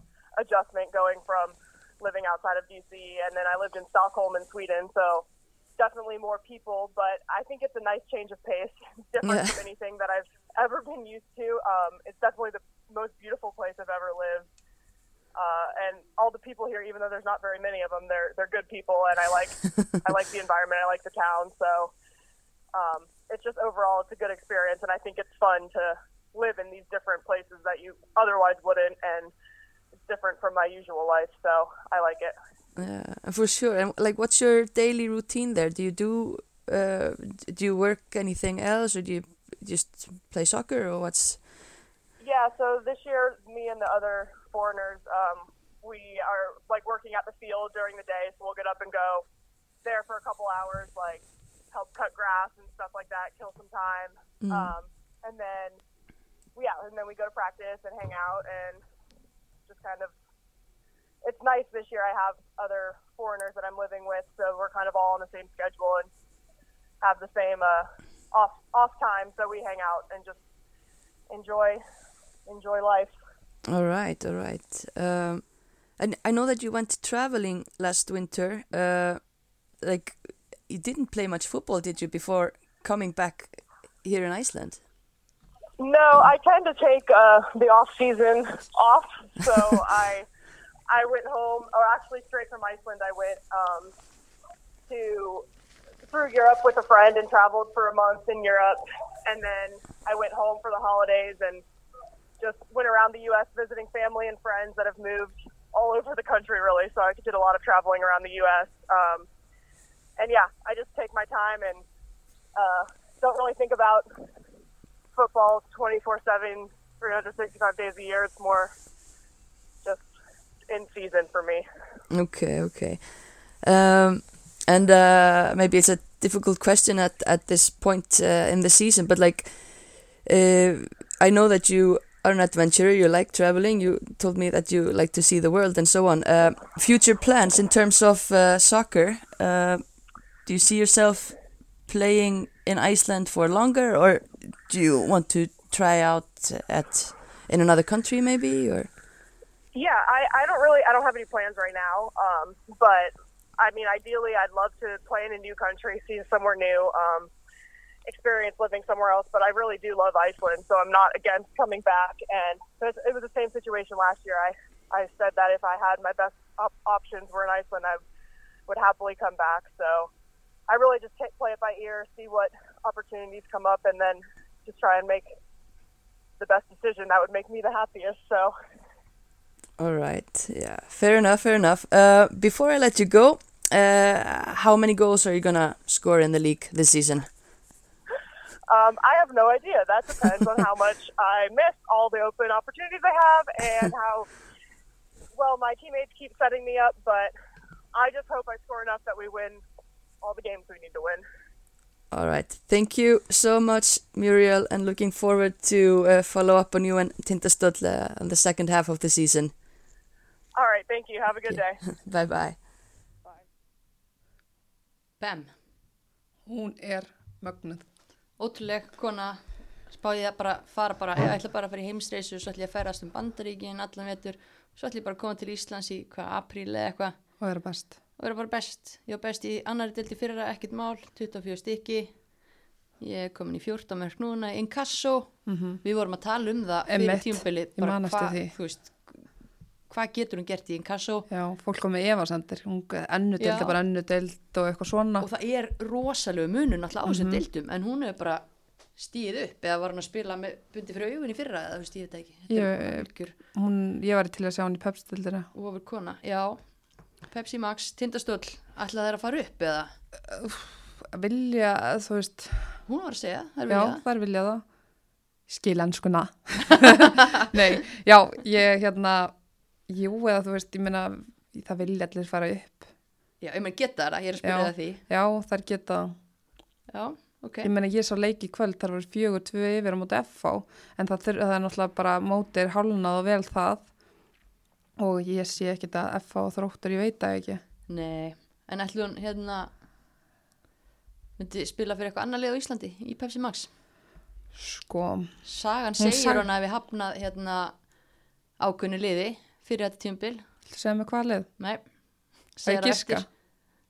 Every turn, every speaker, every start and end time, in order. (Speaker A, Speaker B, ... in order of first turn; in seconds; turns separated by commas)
Speaker A: 0.3-5.3, Speaker A: 5.8-14.5, Speaker B: 9.2-9.6, Speaker A: 15.3-21.9, Speaker A: 22.7-29.3, Speaker A: 30.1-32.3, Speaker B: 32.8-41.6, Speaker A: 42.2-49.2, Speaker A: 49.8-55.8, Speaker B: 54.4-54.7, Speaker A: 56.5-58.8, Speaker A: 59.7-60.1, Speaker A: 61.2-66.1, Speaker A: 67.0-70.4, Speaker A: 71.3-71.8, Speaker A: 72.5-73.1, Speaker B: 73.7-84.8, Speaker A: 85.8-90.2, Speaker A: 90.9-93.9, Speaker A: 94.9-95.5, Speaker A: 96.0-101.6, Speaker A: 102.4-109.3, Speaker A: 110.2-111.8, Speaker A: 112.5-114.2, Speaker A: 115.2-118.7, Speaker A: 119.8-120.1, Speaker A: 120.7-121.7, Speaker B: 122.1-148.9, Speaker A: 149.7-157.3, Speaker A: 158.1-168.0, Speaker A: 168.7-170.1, Speaker A: 170.7-175.3, Speaker A: 176.4-178.5, Speaker B: 179.8-187.3, Speaker A: 188.7-194.3, Speaker A: 195.3-197.3, Speaker A: 197.9-199.6, Speaker A: 200.2-201.2, Speaker B: 202.1-209.5, Speaker A: 210.5-211.8, Speaker B: 211.5-212.6, Speaker B: 215.2-215.5, Speaker C: 216.4-217.8, Speaker B: 218.4-227.2, Speaker C: 227.4-227.9, Speaker B: 228.2-232.2, Speaker B: 233.0-239.3, Speaker C: 235.4-235.8, Speaker C: 236.9-238.5, Speaker B: 239.9-241.3, Speaker C: 241.3-245.2, Speaker B: 243.4-243.8, Speaker B: 245.2-248.4, Speaker C: 247.1-247.4, Speaker B: 248.9-253.3, Speaker C: 252.5-255.5, Speaker B: 255.5-256.6, Speaker B: 257.3-259.9, Speaker C: 260.3-262.8, Speaker B: 262.9-264.0, Speaker C: 263.7-264.6, Speaker C: 265.5-269.4, Speaker C: 269.9-272.9, Speaker B: 273.4-275.0, Speaker C: 274.4-276.1, Speaker B: 276.9-277.7, Speaker C: 277.6-283.9, Speaker C: 285.0-287.6, Speaker B: 287.9-289.7, Speaker B: 291.4-293.7, Speaker C: 294.6-295.4, Speaker B: 295.4-297.8, Speaker C: 296.0-296.4, Speaker B: 298.6-300.4, Speaker C: 300.7-301.5, Speaker B: 301.6-301.9, Speaker B: 302.5-303.2, Speaker C: 302.6-303.2